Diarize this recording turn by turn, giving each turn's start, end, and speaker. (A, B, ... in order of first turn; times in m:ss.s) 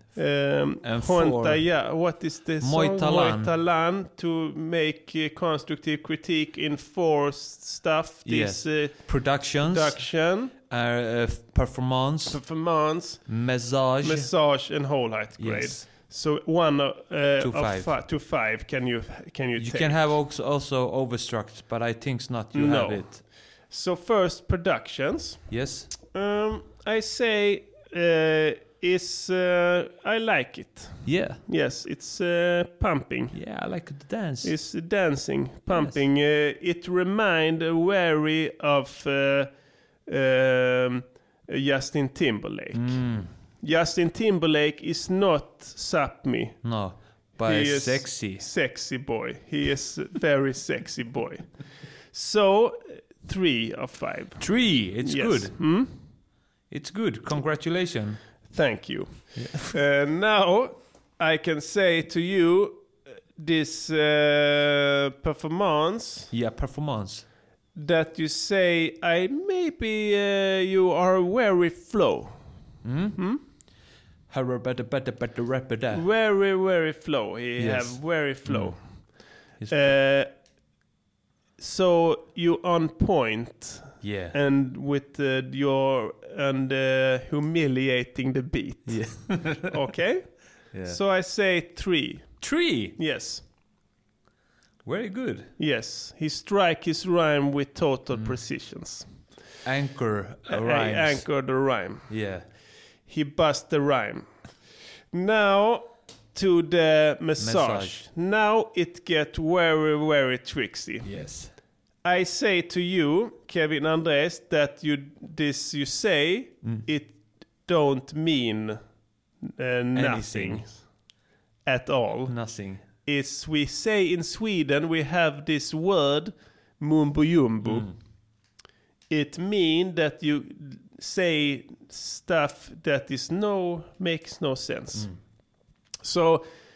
0:00.2-0:10.5 A
0:00.8-0:01.7 B
0:02.6-0:03.5 B
0:08.3-0:12.4 B
0:12.3-0:13.3 A
0:13.3-0:14.3 B
0:14.0-0:20.0 A
0:15.4-0:15.9 B
0:17.4-0:17.9 B
0:19.6-0:23.2 B
0:22.5-0:25.6 A
0:25.5-0:25.9 B
0:26.1-0:33.4 A
0:31.1-0:31.4 B
0:33.3-0:34.5 B
0:34.4-0:39.5 A
0:35.7-0:36.0 B
0:40.1-0:43.0 A
0:42.7-0:43.3 B
0:43.6-0:46.6 A
0:46.6-0:48.5 B
0:47.4-0:51.5 A
0:52.1-0:54.4 A
0:54.4-0:55.6 B
0:55.0-0:55.9 A
0:56.7-0:58.2 B
0:58.5-1:06.3 A
0:59.4-0:59.7 B
1:06.3-1:07.3 B
1:07.8-1:12.3 A
1:12.8-1:13.2 B
1:13.2-1:13.4 A
1:14.3-1:16.0 B
1:15.9-1:19.0 A
1:17.6-1:19.0 B
1:19.6-1:19.9 B
1:19.7-1:20.3 A
1:21.6-1:32.4 A
1:24.0-1:24.4 B
1:28.9-1:29.7 B
1:30.7-1:31.0 B
1:32.4-1:33.0 B
1:33.0-1:33.4 A
1:34.8-1:35.5 B
1:35.6-1:39.1 A
1:39.6-1:41.3 B
1:40.5-1:42.1 A
1:42.1-1:42.4 B
1:43.1-1:44.3 A
1:45.1-1:51.1 A
1:47.4-1:48.0 B
1:51.0-1:51.5 B
1:52.0-1:58.8 A
1:59.6-2:00.8 A
2:00.0-2:00.7 B
2:01.7-2:02.4 A
2:02.3-2:02.8 B
2:03.0-2:07.9 A
2:07.6-2:07.9 B
2:09.1-2:15.1 A
2:16.0-2:16.5 A